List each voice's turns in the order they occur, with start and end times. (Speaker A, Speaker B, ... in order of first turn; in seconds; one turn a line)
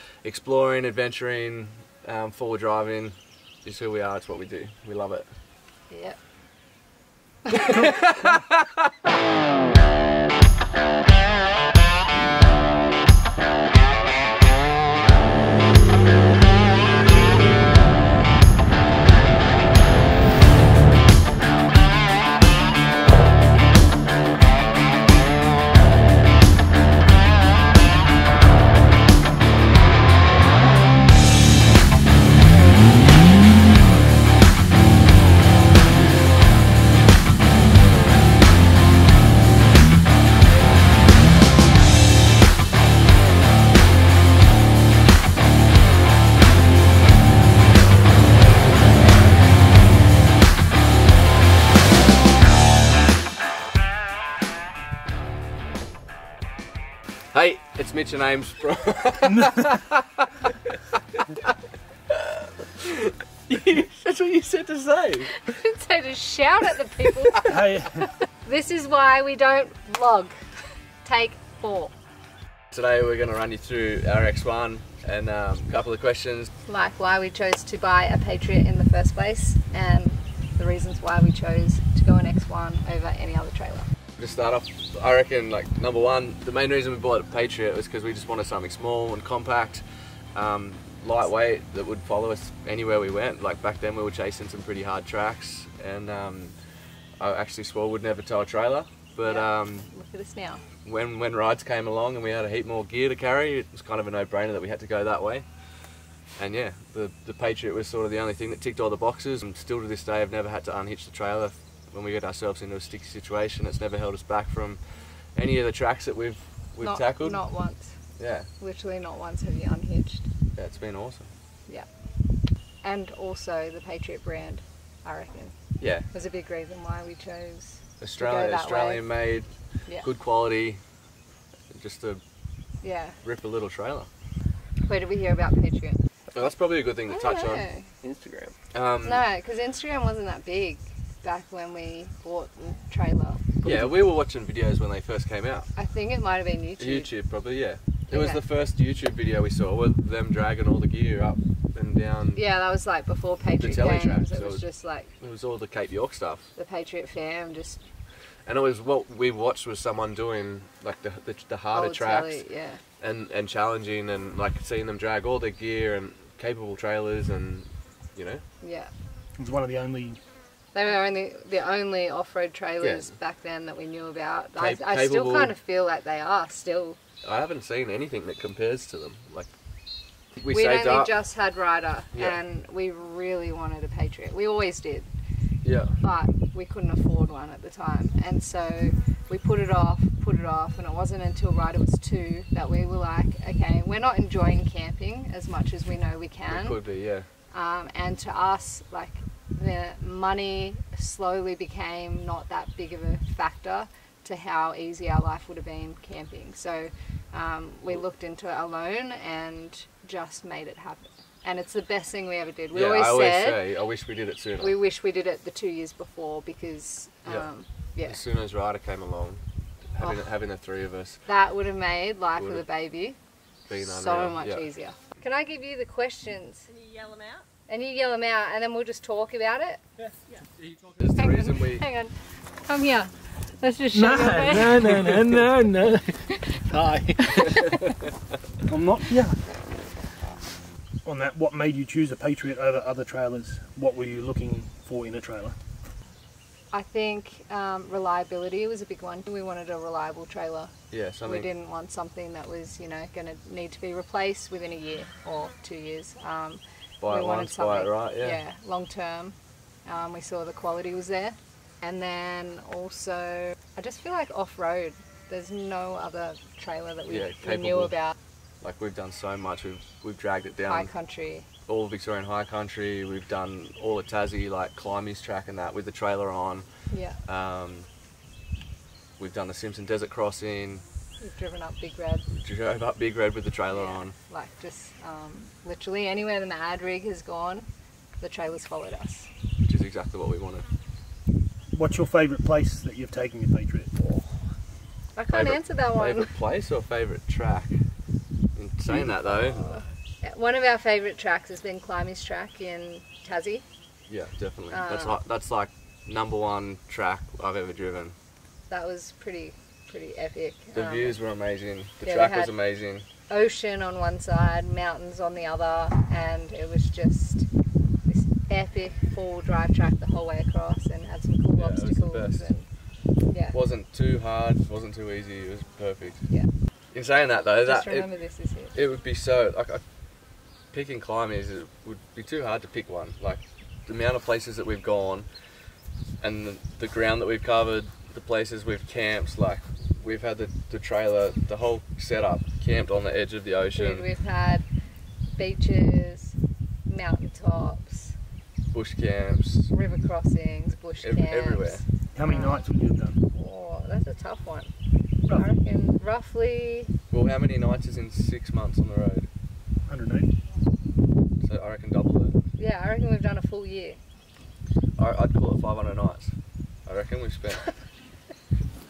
Speaker A: 0.2-5.3
Speaker B: 5.9-6.2
Speaker B: 7.5-7.8
Speaker A: 7.5-8.9
Speaker A: 57.3-61.5
Speaker A: 62.1-65.3
Speaker B: 65.3-70.4
Speaker C: 67.4-68.0
Speaker B: 71.0-71.9
Speaker A: 72.7-76.5
Speaker B: 76.7-83.9
Speaker A: 84.2-89.8
Speaker A: 90.3-96.5
Speaker A: 97.2-99.9
Speaker B: 99.2-100.6
Speaker A: 100.8-105.5
Speaker A: 106.4-114.8
Speaker A: 115.3-117.4
Speaker B: 116.8-118.0
Speaker A: 118.2-118.5
Speaker B: 118.6-120.3
Speaker A: 120.5-121.3
Speaker B: 122.8-125.5
Speaker A: 125.8-126.1
Speaker B: 126.1-129.1
Speaker A: 128.0-129.5
Speaker A: 130.0-130.8
Speaker A: 131.7-132.2
Speaker B: 132.8-133.2
Speaker A: 133.2-134.1
Speaker B: 134.8-136.0
Speaker A: 136.3-137.7
Speaker B: 137.1-137.9
Speaker D: 138.0-138.5
Speaker A: 138.7-139.2
Speaker B: 139.0-143.5
Speaker D: 143.6-143.9
Speaker A: 143.6-145.7
Speaker B: 145.8-147.1
Speaker A: 146.8-152.4
Speaker B: 148.1-148.4
Speaker B: 152.3-155.1
Speaker A: 153.6-154.6
Speaker A: 155.2-156.5
Speaker B: 156.6-157.8
Speaker A: 158.4-162.4
Speaker B: 161.7-162.8
Speaker A: 163.0-168.4
Speaker B: 168.6-168.9
Speaker C: 169.4-170.2
Speaker B: 170.7-177.0
Speaker A: 172.8-173.1
Speaker A: 174.6-175.5
Speaker A: 177.2-179.5
Speaker A: 180.4-181.1
Speaker B: 180.5-185.1
Speaker A: 185.6-186.0
Speaker B: 186.0-196.8
Speaker A: 196.5-197.3
Speaker B: 197.5-213.6
Speaker A: 212.7-214.7
Speaker B: 214.6-218.2
Speaker A: 218.0-219.4
Speaker A: 219.9-221.2
Speaker B: 221.3-223.2
Speaker A: 222.4-222.6
Speaker A: 223.7-224.6
Speaker B: 223.8-226.7
Speaker D: 226.7-227.4
Speaker B: 227.7-229.8
Speaker D: 230.3-231.0
Speaker A: 231.0-231.8
Speaker B: 231.2-232.1
Speaker B: 232.6-234.9
Speaker C: 233.9-237.8
Speaker B: 237.2-237.7
Speaker C: 238.7-239.4
Speaker C: 241.0-245.6
Speaker B: 246.7-268.1
Speaker A: 250.9-251.5
Speaker A: 257.0-258.4
Speaker A: 267.1-267.9
Speaker A: 268.6-270.9
Speaker B: 270.6-271.5
Speaker A: 271.7-276.6
Speaker B: 276.9-277.2
Speaker A: 277.3-277.9
Speaker A: 279.2-280.8
Speaker B: 281.2-282.2
Speaker A: 282.3-284.1
Speaker B: 283.7-287.7
Speaker B: 288.2-289.3
Speaker A: 289.6-290.7
Speaker C: 291.7-293.9
Speaker B: 294.0-294.2
Speaker B: 295.1-296.3
Speaker A: 295.3-297.7
Speaker A: 298.5-299.7
Speaker B: 299.2-303.6
Speaker A: 304.1-308.1
Speaker B: 304.7-305.2
Speaker B: 308.7-311.2
Speaker A: 310.7-313.1
Speaker B: 312.0-312.5
Speaker B: 313.3-317.5
Speaker B: 318.1-322.7
Speaker A: 321.6-322.4
Speaker B: 323.3-323.6
Speaker A: 323.5-326.2
Speaker A: 326.9-328.1
Speaker B: 327.6-328.7
Speaker A: 328.7-329.8
Speaker A: 330.7-335.3
Speaker A: 336.2-344.1
Speaker B: 343.7-344.6
Speaker B: 345.4-346.3
Speaker B: 346.9-348.1
Speaker A: 348.7-349.7
Speaker B: 349.7-352.6
Speaker A: 351.0-351.8
Speaker C: 352.1-353.2
Speaker B: 353.3-354.7
Speaker B: 355.3-356.9
Speaker A: 357.1-359.3
Speaker C: 359.9-360.3
Speaker A: 361.4-362.3
Speaker B: 362.6-364.0
Speaker A: 365.0-366.3
Speaker A: 366.9-367.7